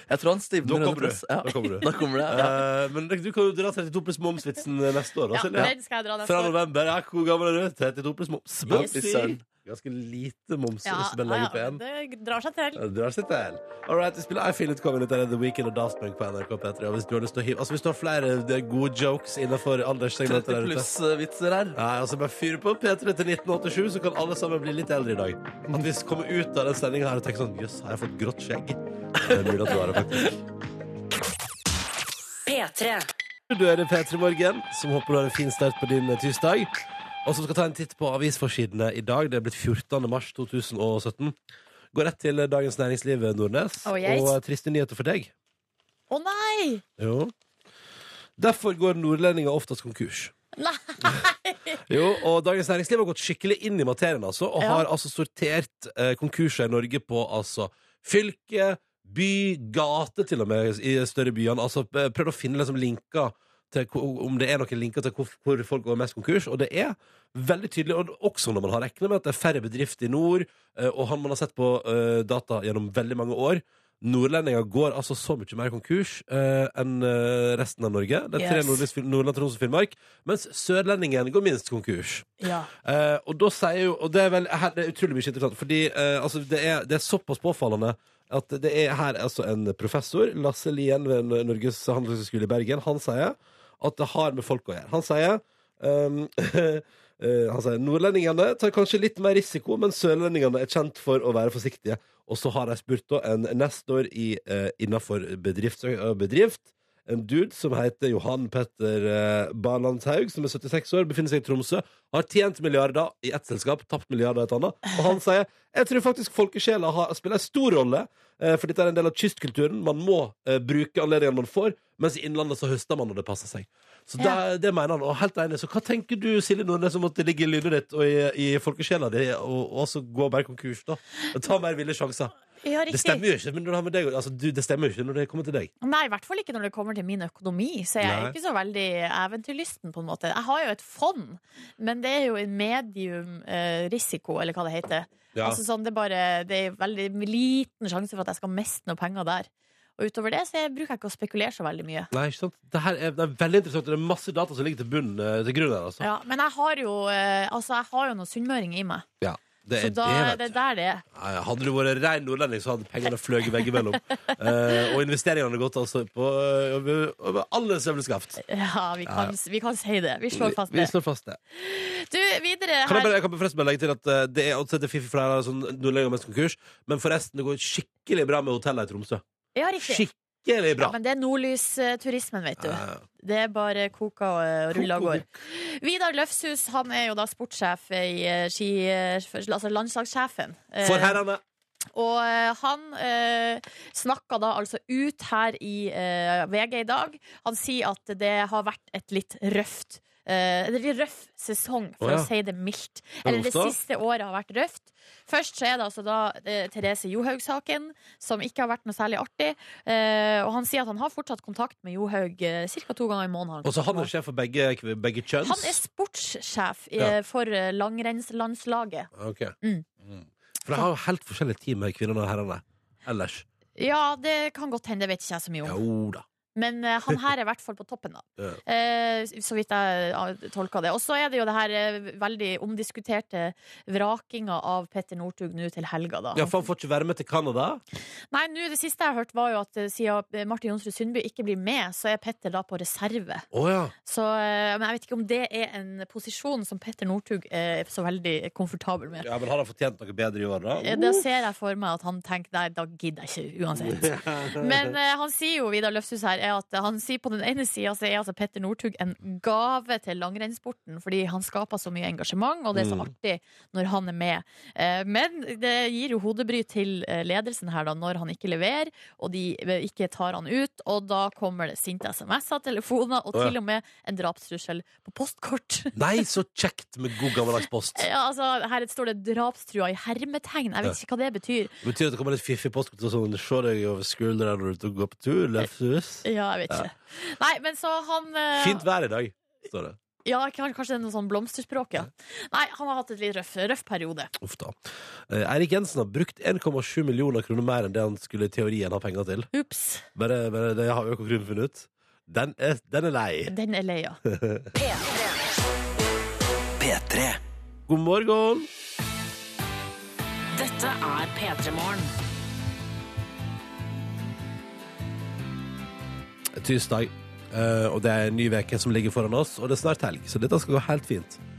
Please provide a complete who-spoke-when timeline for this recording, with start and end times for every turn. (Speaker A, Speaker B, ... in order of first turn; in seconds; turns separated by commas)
Speaker A: 0.1-2.5, Speaker B: 0.6-11.8, Speaker C: 5.3-6.5, Speaker A: 8.7-9.4, Speaker C: 8.7-9.0, Speaker C: 10.8-12.8, Speaker B: 12.7-20.9, Speaker A: 20.2-21.8, Speaker B: 21.7-30.3, Speaker A: 29.2-30.4, Speaker D: 32.5-33.1, Speaker B: 33.5-36.7, Speaker B: 37.2-41.4, Speaker B: 41.9-45.3, Speaker C: 43.8-44.4, Speaker C: 46.1-46.8, Speaker B: 47.0-47.3, Speaker B: 48.4-50.3, Speaker C: 50.6-51.8, Speaker B: 51.9-132.3, Speaker C: 54.6-54.9, Speaker C: 78.4-78.8, Speaker C: 82.4-82.7, Speaker C: 132.6-133.2, Speaker B: 132.9-135.7, Speaker C: 135.8-152.1, Speaker B: 138.0-138.3, Speaker B: 145.3-145.6, Speaker B: 152.1-156.0, Speaker C: 156.0-159.0, Speaker B: 159.2-160.5, Speaker C: 159.8-161.0, Speaker B: 161.1-168.4, Speaker C: 168.4-170.9, Speaker B: 169.1-169.3, Speaker B: 170.3-171.4, Speaker C: 171.6-173.1, Speaker B: 172.8-179.2, Speaker C: 179.5-180.0, Speaker B: 179.8-180.9, Speaker C: 180.8-191.2, Speaker B: 182.6-183.0, Speaker B: 184.7-185.3, Speaker B: 190.8-191.4, Speaker C: 191.9-214.1, Speaker B: 202.0-202.3, Speaker B: 203.2-203.8, Speaker B: 213.6-215.8, Speaker C: 215.4-219.1, Speaker B: 219.1-223.4, Speaker C: 223.8-225.8, Speaker B: 225.6-226.2, Speaker C: 226.6-236.6, Speaker B: 236.3-237.8, Speaker C: 238.3-243.4, Speaker B: 243.5-243.9, Speaker C: 244.0-249.3, Speaker B: 249.2-251.2, Speaker C: 250.8-275.9, Speaker B: 253.8-254.9, Speaker B: 262.7-263.1, Speaker B: 275.9-278.1, Speaker C: 277.9-281.7, Speaker B: 281.8-286.9, Speaker C: 286.2-288.8, Speaker B: 288.5-290.0, Speaker C: 290.2-294.3, Speaker B: 294.4-294.8, Speaker B: 295.3-299.5, Speaker C: 299.5-300.1, Speaker B: 300.1-303.5, Speaker C: 303.5-304.2, Speaker B: 304.2-304.7, Speaker D: 304.7-305.2, Speaker D: 306.8-307.4, Speaker B: 307.9-308.7, Speaker D: 310.5-312.1, Speaker B: 316.5-321.4